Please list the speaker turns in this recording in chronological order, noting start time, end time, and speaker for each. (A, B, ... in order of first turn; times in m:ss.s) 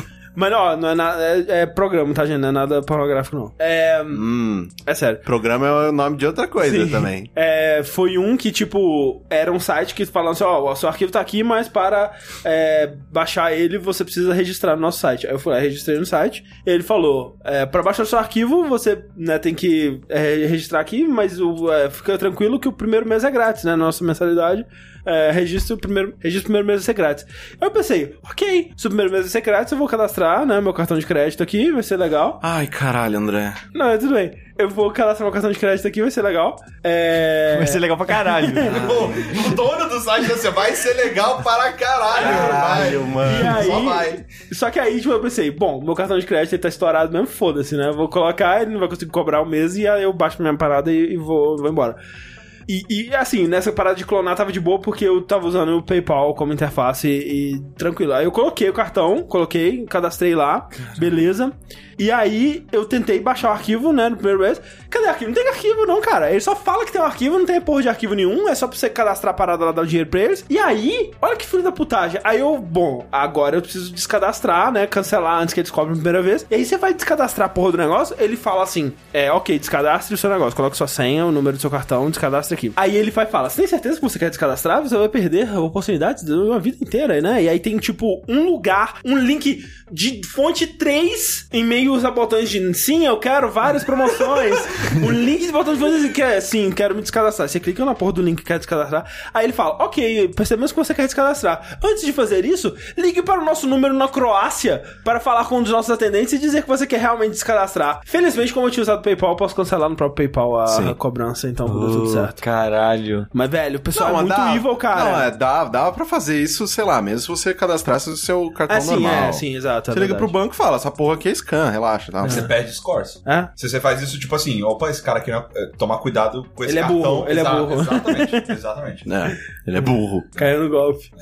0:00.4-0:04.2 A
0:04.1-0:04.7 B
0:04.8-0:05.2 A
0:05.2-0:07.3 B
0:06.6-0:32.4 A
0:32.4-0:33.6 B
0:33.7-0:39.1 A
0:37.5-0:39.2 C
0:38.6-0:44.2 D
0:42.1-0:52.0 A
0:42.1-0:43.9 B
0:52.7-1:52.4 A
1:50.7-1:50.9 B
1:51.6-1:53.3 C
1:53.3-1:55.3 A
1:53.9-2:02.5 B
1:58.7-2:00.3 A
2:02.2-2:09.1 D
2:03.2-2:03.5 A
2:06.6-2:08.5 A
2:09.0-2:10.4 B
2:10.3-2:11.1 A